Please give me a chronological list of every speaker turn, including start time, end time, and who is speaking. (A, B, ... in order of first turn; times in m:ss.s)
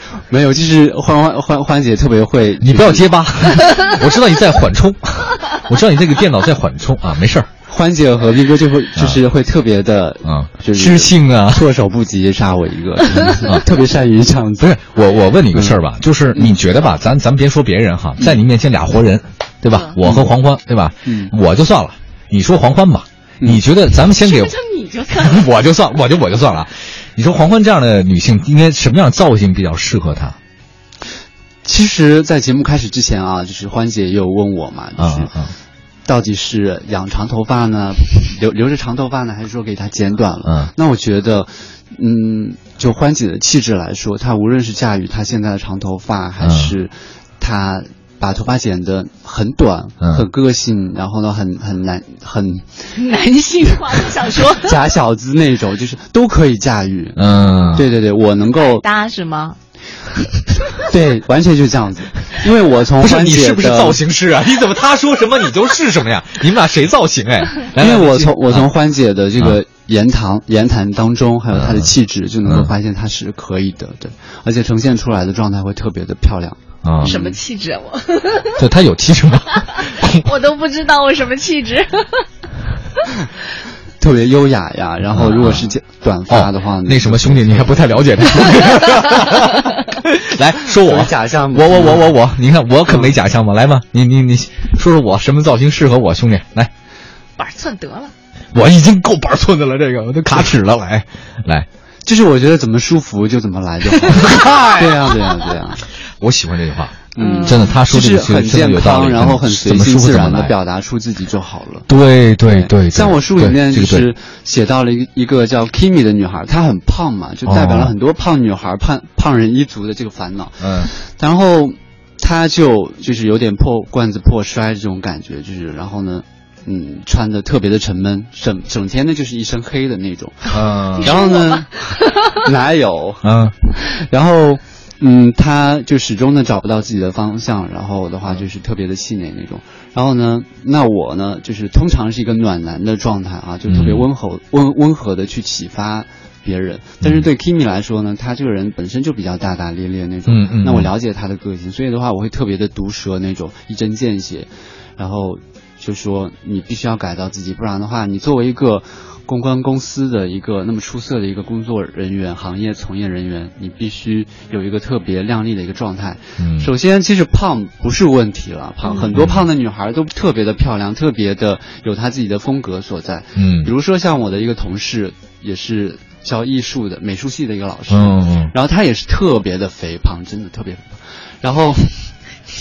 0:00.3-0:03.2 A
0:02.6-0:07.5 B
0:07.7-0:14.8 A
0:10.2-0:11.6 B
0:13.2-0:13.6 B
0:14.6-0:24.5 B
0:15.5-0:15.8 A
0:16.3-0:16.6 A
0:19.7-0:20.0 C
0:20.0-0:20.3 A
0:21.0-0:21.3 A
0:24.1-0:25.5 C
0:25.2-0:30.4 B
0:31.6-0:35.4 A
0:35.0-0:35.5 B
0:36.0-0:52.9 A
0:40.4-0:40.7 B
0:46.4-0:46.7 B
0:52.9-0:54.8 C
0:54.5-0:58.8 A
0:57.2-0:57.9 B
0:58.8-0:59.6 C
1:00.7-1:04.0 A
1:03.0-1:08.7 B
1:07.8-1:17.4 A
1:11.5-1:11.9 B
1:16.8-1:17.1 B
1:17.0-1:18.6 C
1:18.6-1:20.2 B
1:20.0-1:22.3 C
1:24.0-1:28.8 A
1:25.1-1:25.7 B
1:26.3-1:36.7 B
1:30.7-1:32.1 A
1:32.8-1:33.1 A
1:37.4-1:38.1 C
1:38.5-1:41.7 B
1:42.0-1:45.8 A
1:44.0-1:45.1 B
1:46.2-1:50.5 B
1:47.1-1:51.9 A
1:47.2-1:47.8 C
1:51.9-1:54.1 B
1:52.4-3:02.0 A
1:57.5-1:57.9 B
2:00.6-2:00.9 B
2:10.5-2:11.2 B
2:10.9-2:12.4 C
2:13.2-2:13.5 B
2:23.7-2:24.0 B
2:30.3-2:30.9 B
2:46.4-2:46.7 B
2:48.8-2:49.1 C
2:49.1-2:49.4 B
2:53.4-2:53.7 B
2:57.9-2:58.5 B